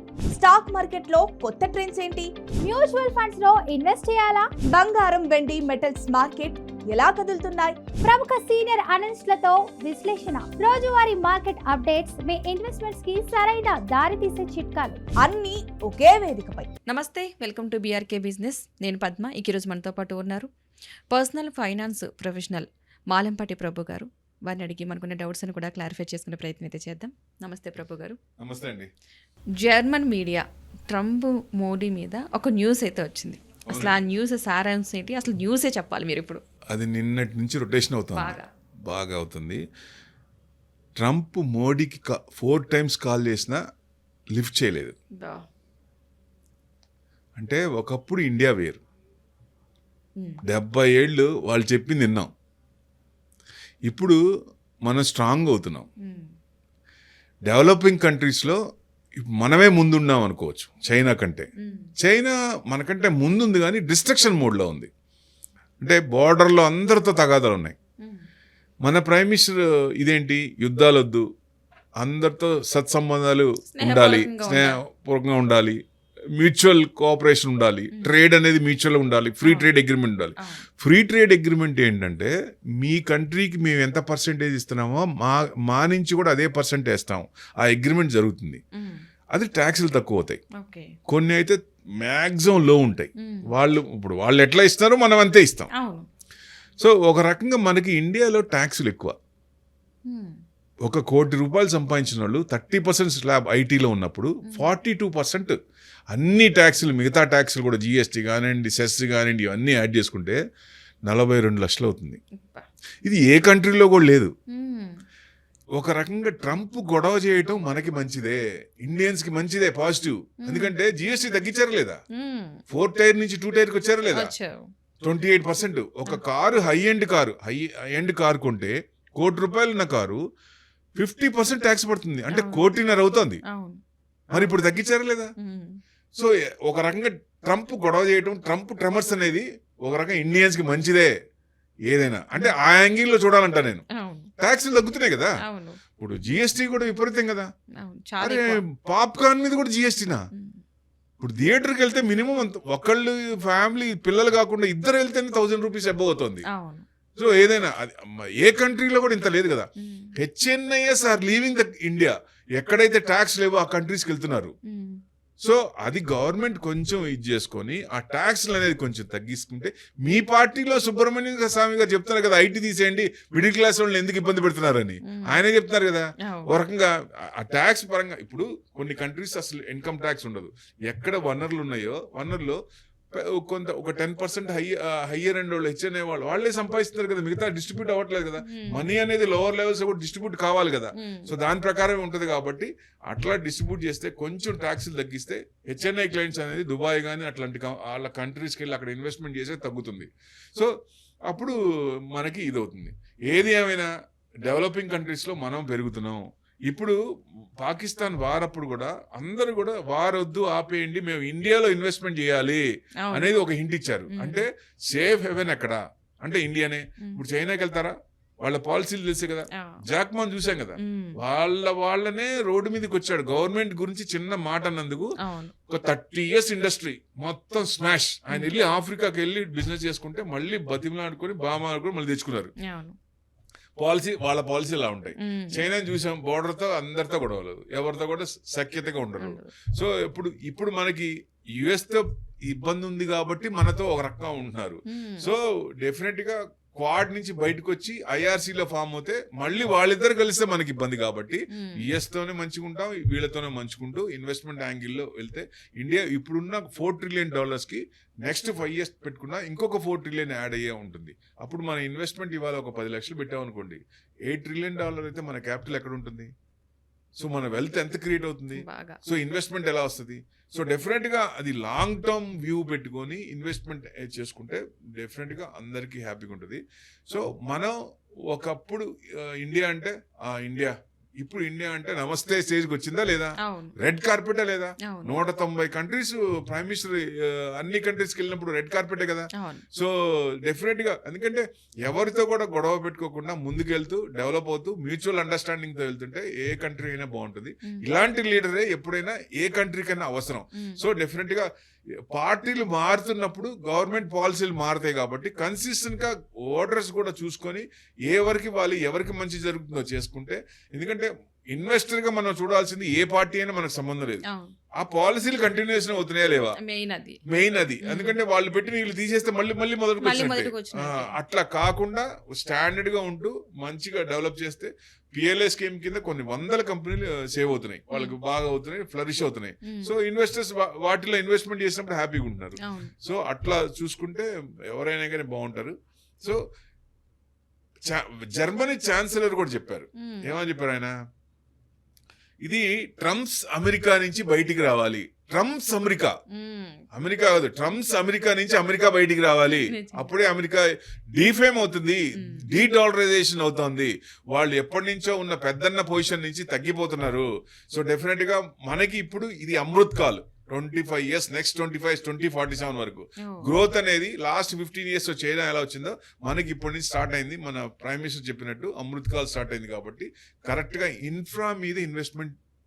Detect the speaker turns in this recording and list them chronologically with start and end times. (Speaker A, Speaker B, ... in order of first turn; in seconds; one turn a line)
Speaker A: 0.3-2.3
Speaker B: 2.6-4.5
Speaker A: 4.7-7.8
Speaker B: 8.0-15.0
Speaker A: 15.2-16.7
Speaker C: 16.9-20.5
Speaker C: 21.1-28.2
Speaker D: 28.4-28.9
Speaker C: 29.6-36.4
Speaker D: 33.7-34.0
Speaker D: 36.7-39.6
Speaker C: 38.1-38.5
Speaker D: 41.0-43.6
Speaker D: 44.3-45.0
Speaker C: 45.2-45.4
Speaker D: 47.4-48.8
Speaker D: 50.5-52.3
Speaker D: 53.9-54.2
Speaker D: 54.9-55.9
Speaker C: 56.0-56.3
Speaker D: 57.5-58.6
Speaker D: 59.2-61.5
Speaker C: 61.6-61.9
Speaker D: 62.0-64.9
Speaker D: 65.8-67.8
Speaker D: 68.8-71.2
Speaker D: 72.0-75.8
Speaker C: 73.7-74.8
Speaker D: 76.4-88.6
Speaker D: 89.3-90.4
Speaker C: 90.6-91.0
Speaker D: 91.1-95.7
Speaker C: 93.2-93.5
Speaker C: 95.8-96.1
Speaker D: 96.8-99.1
Speaker C: 100.1-100.4
Speaker D: 100.8-105.6
Speaker D: 106.1-110.4
Speaker D: 111.1-112.2
Speaker C: 112.3-112.7
Speaker D: 113.0-114.3
Speaker C: 114.5-115.0
Speaker D: 115.8-122.0
Speaker C: 120.5-120.8
Speaker C: 122.2-122.6
Speaker D: 122.7-124.3
Speaker C: 124.1-124.7
Speaker D: 125.0-130.2
Speaker D: 131.0-133.4
Speaker C: 132.3-132.7
Speaker C: 133.5-133.8
Speaker D: 134.3-135.3
Speaker C: 135.4-135.8
Speaker D: 136.2-141.1
Speaker D: 141.9-143.8
Speaker C: 143.9-144.3
Speaker D: 144.4-145.3
Speaker C: 145.4-145.8
Speaker D: 146.0-147.5
Speaker C: 147.8-148.6
Speaker D: 148.2-150.2
Speaker C: 150.4-150.6
Speaker D: 151.2-156.4
Speaker C: 156.5-156.9
Speaker D: 157.2-164.5
Speaker C: 159.8-160.1
Speaker C: 164.7-165.0
Speaker D: 165.4-182.6
Speaker C: 175.1-175.4
Speaker D: 183.2-200.7
Speaker C: 188.4-188.8
Speaker C: 191.0-191.3
Speaker D: 201.3-201.6
Speaker D: 202.1-203.9
Speaker D: 204.4-207.0
Speaker D: 207.6-225.1
Speaker C: 213.0-213.3
Speaker C: 214.1-214.4
Speaker C: 219.6-219.8
Speaker C: 220.8-221.2
Speaker C: 225.2-225.5
Speaker D: 225.7-232.5
Speaker C: 232.6-233.0
Speaker D: 233.8-266.3
Speaker C: 235.2-235.6
Speaker C: 239.2-239.5
Speaker C: 244.9-245.3
Speaker C: 251.5-251.8
Speaker D: 267.2-277.7
Speaker C: 268.6-269.0
Speaker D: 278.3-301.5
Speaker C: 283.4-283.8
Speaker C: 284.9-285.1
Speaker C: 289.4-289.6
Speaker D: 302.1-314.2
Speaker C: 314.3-314.6
Speaker D: 314.8-316.6
Speaker C: 316.6-317.2
Speaker D: 317.3-336.4
Speaker C: 317.8-318.2
Speaker C: 320.0-321.1
Speaker C: 332.6-332.9
Speaker D: 337.9-340.9
Speaker C: 340.0-340.3
Speaker D: 342.4-346.1
Speaker C: 346.3-346.8
Speaker D: 346.9-372.3
Speaker C: 349.6-350.1
Speaker C: 352.2-352.5